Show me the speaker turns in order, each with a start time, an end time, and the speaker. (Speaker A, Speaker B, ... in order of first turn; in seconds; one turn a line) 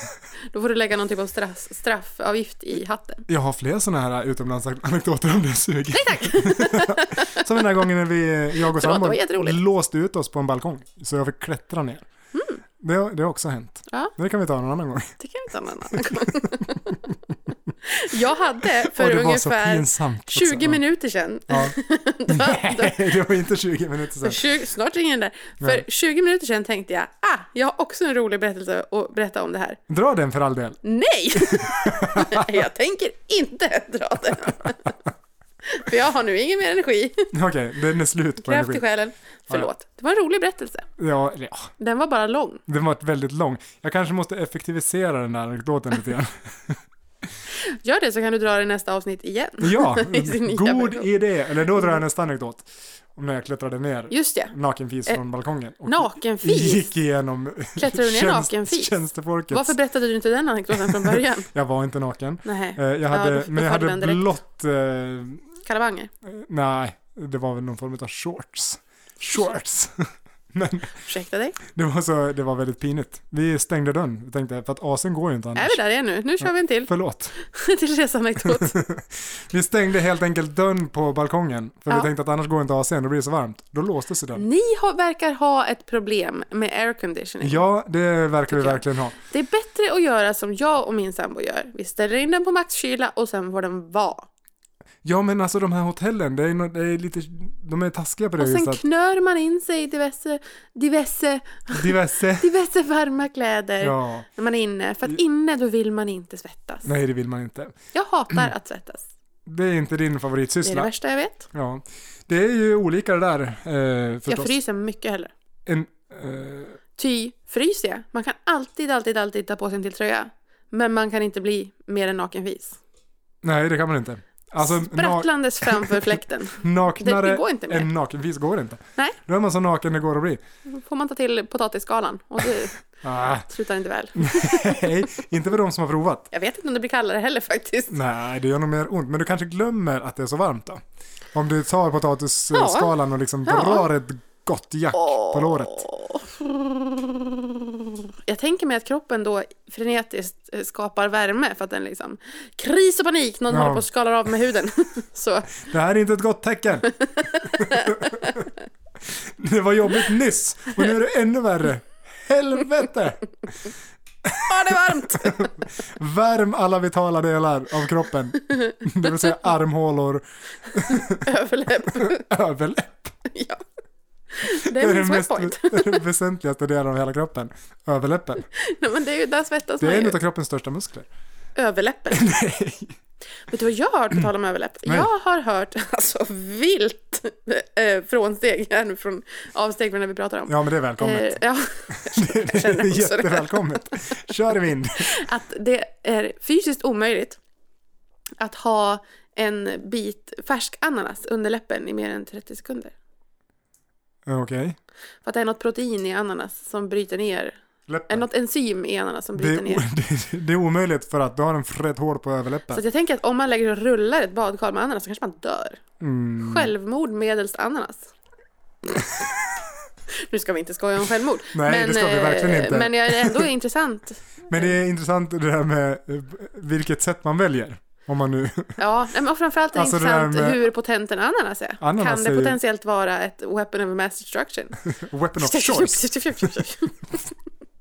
Speaker A: 0.5-3.2
Speaker B: 3.3-12.0
Speaker A: 5.9-7.5
Speaker A: 8.6-9.6
Speaker A: 12.3-12.6
Speaker B: 12.8-15.2
Speaker A: 15.2-16.9
Speaker B: 15.9-17.1
Speaker A: 17.8-23.1
Speaker B: 18.6-20.8
Speaker B: 21.5-21.8
Speaker B: 22.3-24.5
Speaker A: 24.2-29.8
Speaker B: 29.9-30.8
Speaker A: 30.8-34.9
Speaker B: 31.4-32.6
Speaker A: 35.6-37.3
Speaker B: 37.3-38.8
Speaker A: 38.4-40.9
Speaker B: 41.0-41.7
Speaker A: 41.8-42.6
Speaker B: 42.7-46.8
Speaker A: 47.6-51.1
Speaker B: 49.6-59.7
Speaker A: 54.1-54.5
Speaker A: 55.9-56.9
Speaker A: 57.8-58.9
Speaker A: 59.5-61.5
Speaker B: 60.8-65.5
Speaker A: 62.4-64.2
Speaker A: 65.7-66.1
Speaker B: 66.2-71.0
Speaker A: 71.0-71.6
Speaker B: 71.7-75.8
Speaker A: 75.5-78.7
Speaker B: 76.4-77.3
Speaker B: 78.5-84.5
Speaker A: 84.3-87.6
Speaker B: 87.4-89.1
Speaker A: 88.5-94.3
Speaker B: 95.0-98.8
Speaker A: 98.4-106.9
Speaker B: 101.7-102.5
Speaker B: 103.8-104.3
Speaker B: 106.8-107.8
Speaker A: 107.9-109.0
Speaker B: 109.5-110.9
Speaker A: 110.6-111.5
Speaker B: 111.5-114.5
Speaker A: 114.3-115.3
Speaker B: 115.7-116.8
Speaker A: 117.0-122.8
Speaker B: 123.4-126.1
Speaker A: 124.6-127.9
Speaker B: 126.6-130.4
Speaker A: 130.7-134.9
Speaker B: 133.0-133.5
Speaker B: 134.2-136.3
Speaker A: 136.3-137.9
Speaker B: 137.9-140.8
Speaker B: 141.3-145.8
Speaker A: 142.5-142.9
Speaker A: 143.4-143.9
Speaker A: 144.9-155.6
Speaker B: 153.5-153.8
Speaker B: 155.6-158.5
Speaker A: 157.0-158.3
Speaker B: 159.1-163.7
Speaker B: 164.2-171.3
Speaker A: 164.4-165.5
Speaker A: 170.9-172.2
Speaker B: 171.9-173.2
Speaker A: 173.3-173.6
Speaker A: 174.3-176.0
Speaker B: 174.5-178.4
Speaker A: 178.5-180.2
Speaker B: 179.8-181.1
Speaker A: 181.6-182.3
Speaker B: 182.1-182.9
Speaker A: 183.5-193.8
Speaker B: 190.5-195.2
Speaker A: 194.9-197.4
Speaker A: 198.4-202.9
Speaker B: 204.2-204.8
Speaker A: 205.2-207.6
Speaker B: 207.9-208.3
Speaker A: 208.1-209.8
Speaker B: 209.4-212.8
Speaker A: 212.7-215.8
Speaker B: 216.0-216.7
Speaker A: 216.4-218.1
Speaker B: 218.9-219.5
Speaker A: 220.1-224.7
Speaker B: 221.5-223.5
Speaker B: 224.5-228.8
Speaker A: 228.8-234.8
Speaker B: 229.7-230.6
Speaker B: 231.8-232.6
Speaker B: 234.9-236.6
Speaker A: 235.4-237.2